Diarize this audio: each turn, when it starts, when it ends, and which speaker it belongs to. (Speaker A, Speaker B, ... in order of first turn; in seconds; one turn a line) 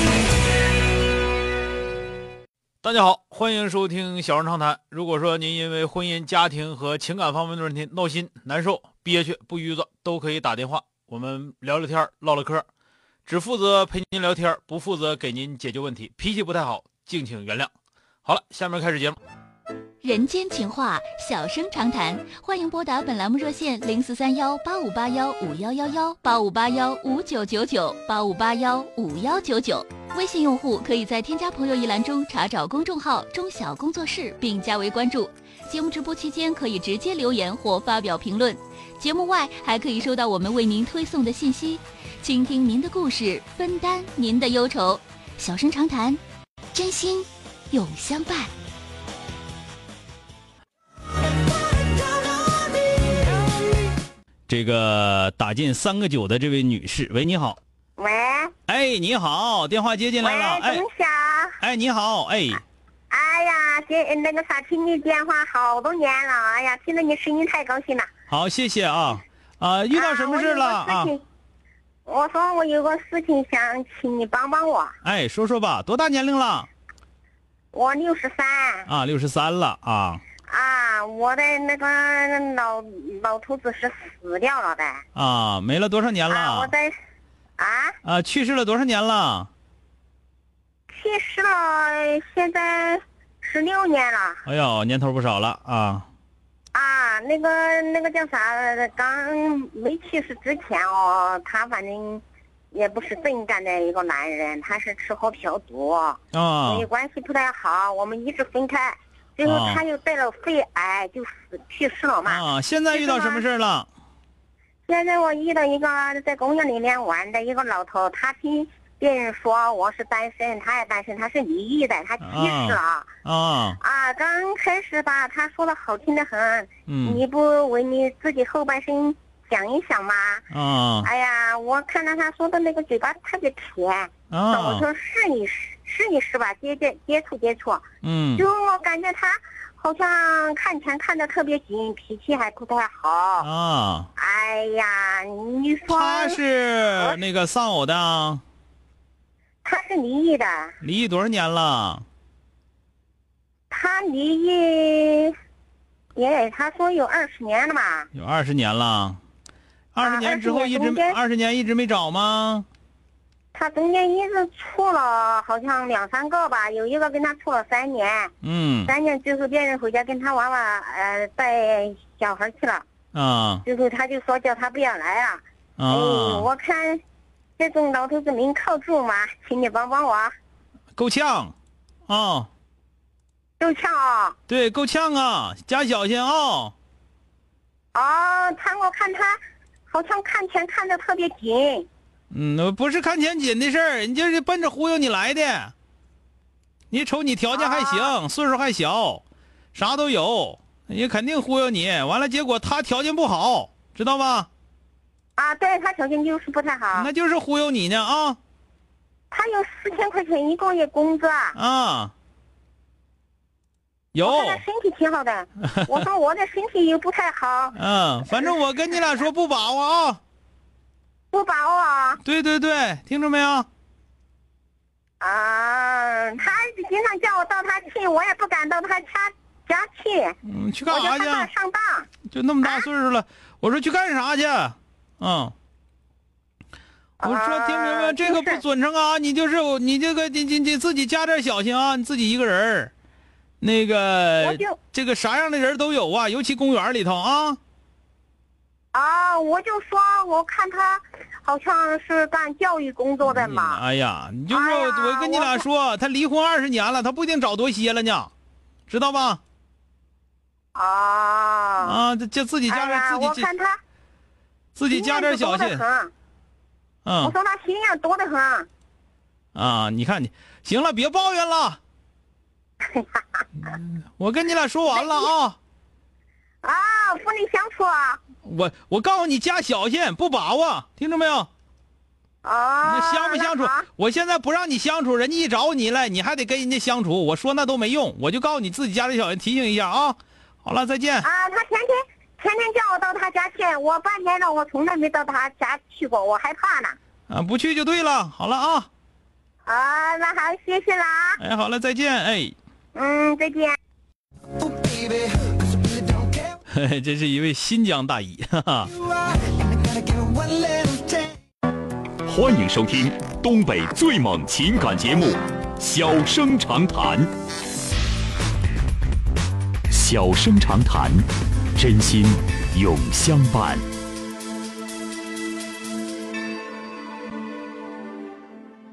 Speaker A: 2.8-12.6
Speaker A: 13.2-17.7
Speaker A: 18.2-19.2
Speaker B: 20.0-46.2
Speaker B: 46.7-48.5
Speaker A: 54.5-57.6
Speaker C: 58.0-58.5
Speaker A: 58.7-60.8
Speaker C: 60.2-61.6
Speaker A: 61.6-62.6
Speaker C: 63.1-68.1
Speaker A: 68.3-71.1
Speaker C: 69.9-71.2
Speaker C: 72.0-74.9
Speaker A: 75.0-76.7
Speaker C: 77.7-78.9
Speaker A: 78.9-80.2
Speaker C: 80.5-85.0
Speaker A: 85.1-86.7
Speaker C: 86.3-86.9
Speaker C: 87.6-88.0
Speaker A: 88.0-89.5
Speaker C: 90.9-94.4
Speaker A: 94.4-96.1
Speaker C: 96.7-113.5
Speaker A: 106.3-106.9
Speaker A: 109.5-109.8
Speaker A: 112.3-113.9
Speaker C: 114.8-123.1
Speaker A: 122.2-123.8
Speaker C: 123.8-130.4
Speaker A: 126.9-127.2
Speaker A: 130.5-131.1
Speaker C: 131.0-137.8
Speaker A: 134.3-134.8
Speaker A: 138.0-138.4
Speaker C: 138.3-143.5
Speaker A: 143.4-144.1
Speaker C: 144.2-147.2
Speaker A: 145.9-148.4
Speaker C: 149.6-150.7
Speaker A: 150.8-152.0
Speaker C: 153.7-155.3
Speaker C: 156.1-158.1
Speaker A: 158.1-159.2
Speaker A: 159.9-162.7
Speaker C: 160.0-161.2
Speaker C: 163.5-168.3
Speaker A: 168.4-168.9
Speaker C: 168.8-172.8
Speaker A: 173.1-173.6
Speaker C: 173.6-177.0
Speaker A: 175.8-176.5
Speaker C: 177.6-180.3
Speaker A: 180.9-181.5
Speaker A: 182.1-182.5
Speaker C: 183.6-184.3
Speaker A: 184.5-186.7
Speaker C: 187.9-191.9
Speaker A: 192.3-195.7
Speaker A: 196.9-204.5
Speaker C: 197.5-198.2
Speaker C: 205.3-207.1
Speaker A: 206.9-208.4
Speaker C: 209.3-211.6
Speaker A: 211.5-212.1
Speaker A: 214.1-214.6
Speaker C: 214.2-217.8
Speaker A: 215.7-216.0
Speaker A: 217.7-220.2
Speaker C: 218.3-219.3
Speaker C: 221.3-222.2
Speaker A: 222.2-223.7
Speaker C: 225.2-232.1
Speaker A: 230.4-231.5
Speaker A: 232.2-235.5
Speaker C: 232.6-232.9
Speaker C: 237.2-238.6
Speaker A: 237.2-242.9
Speaker A: 243.6-247.6
Speaker C: 244.4-244.8
Speaker C: 248.9-253.8
Speaker A: 253.2-258.3
Speaker C: 254.5-255.7
Speaker A: 258.9-259.4
Speaker C: 260.7-262.1
Speaker A: 261.8-263.5
Speaker C: 262.7-263.8
Speaker A: 264.7-265.8
Speaker C: 264.9-266.1
Speaker A: 267.0-267.3
Speaker C: 267.2-268.7
Speaker A: 269.5-271.8
Speaker C: 272.9-273.4
Speaker A: 273.6-275.6
Speaker C: 274.9-275.3
Speaker C: 276.6-278.2
Speaker A: 278.4-281.5
Speaker C: 282.4-283.9
Speaker A: 282.8-291.3
Speaker C: 291.2-297.0
Speaker A: 297.3-298.9
Speaker C: 299.6-301.4
Speaker A: 301.4-302.5
Speaker C: 302.9-303.8
Speaker D: 304.6-306.3
Speaker A: 306.7-308.9
Speaker D: 309.6-311.3
Speaker E: 312.2-317.3
Speaker E: 319.9-323.8